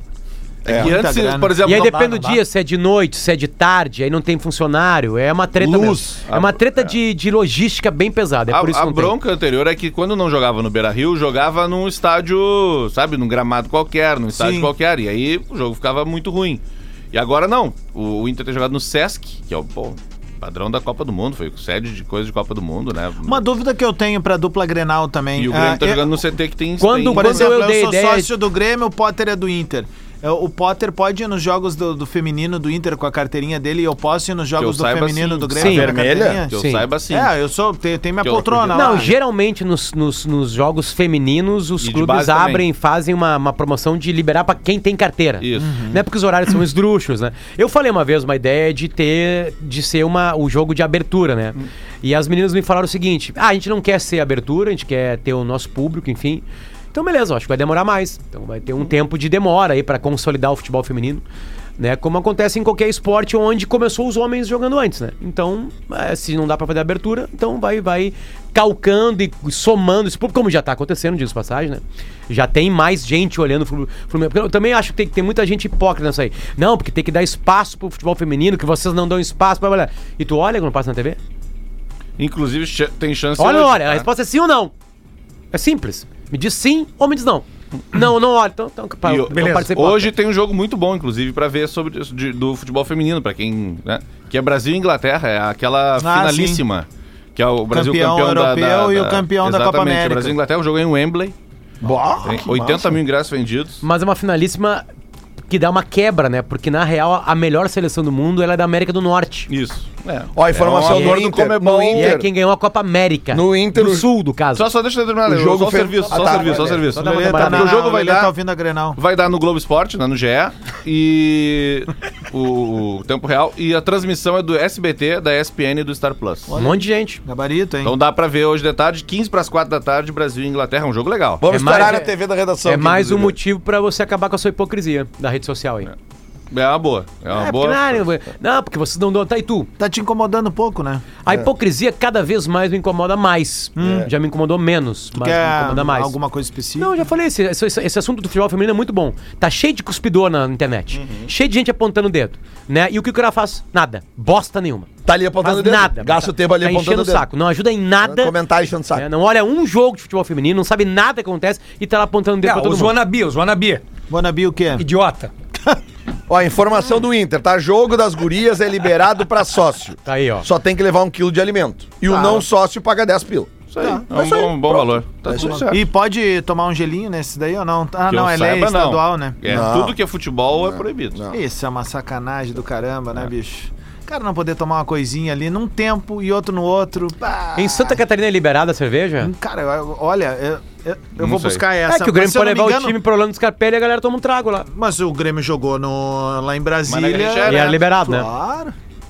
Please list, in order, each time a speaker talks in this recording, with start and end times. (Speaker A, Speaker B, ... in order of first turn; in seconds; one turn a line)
Speaker A: 0.6-0.9
Speaker B: 0.6-2.0
Speaker C: 0.7-1.6
Speaker D: 1.6-9.1
Speaker E: 1.7-2.4
Speaker A: 5.6-6.2
Speaker B: 6.3-7.0
Speaker B: 8.5-23.4
Speaker C: 14.3-14.7
Speaker C: 23.2-26.1
Speaker B: 25.4-27.5
Speaker D: 26.8-28.3
Speaker C: 27.1-36.5
Speaker B: 34.6-35.9
Speaker D: 35.6-35.9
Speaker A: 35.7-36.4
Speaker B: 36.5-37.3
Speaker D: 36.5-36.9
Speaker C: 37.1-39.2
Speaker B: 38.2-39.1
Speaker D: 38.7-61.2
Speaker B: 41.8-42.6
Speaker B: 45.4-45.7
Speaker C: 45.6-46.0
Speaker D: 61.8-81.2
Speaker B: 82.2-84.1
Speaker D: 83.4-84.7
Speaker D: 85.5-90.1
Speaker B: 89.0-101.3
Speaker E: 89.3-89.7
Speaker C: 96.0-96.6
Speaker C: 97.7-100.4
Speaker A: 101.8-103.0
Speaker B: 102.2-103.8
Speaker D: 103.8-104.8
Speaker D: 105.5-109.5
Speaker B: 109.5-112.2
Speaker A: 110.3-112.3
Speaker D: 110.8-111.3
Speaker D: 111.9-114.7
Speaker A: 113.3-114.1
Speaker B: 114.5-118.3
Speaker A: 115.2-116.9
Speaker C: 116.9-119.0
Speaker D: 116.9-117.7
Speaker B: 119.0-126.5
Speaker C: 126.5-127.9
Speaker D: 126.5-127.2
Speaker B: 127.8-131.9
Speaker A: 131.4-133.4
Speaker D: 131.5-132.1
Speaker D: 132.7-135.9
Speaker B: 136.5-138.0
Speaker D: 137.3-139.7
Speaker C: 139.8-141.0
Speaker D: 141.2-146.1
Speaker C: 143.8-144.1
Speaker A: 143.8-144.1
Speaker C: 145.1-147.0
Speaker D: 146.8-154.9
Speaker B: 150.9-151.3
Speaker A: 155.0-157.3
Speaker D: 155.4-158.4
Speaker A: 158.0-159.1
Speaker D: 158.9-163.0
Speaker E: 162.4-163.8
Speaker C: 164.1-164.9
Speaker E: 164.8-165.3
Speaker A: 166.3-175.7
Speaker D: 170.0-170.5
Speaker C: 172.1-172.5
Speaker B: 173.7-175.8
Speaker C: 173.8-174.3
Speaker C: 175.4-179.4
Speaker B: 178.1-181.2
Speaker A: 179.4-180.0
Speaker A: 180.5-181.4
Speaker C: 181.3-188.0
Speaker D: 187.5-189.3
Speaker C: 189.2-193.0
Speaker B: 191.2-191.7
Speaker D: 191.9-194.7
Speaker C: 194.7-198.8
Speaker B: 196.8-197.8
Speaker D: 197.5-198.3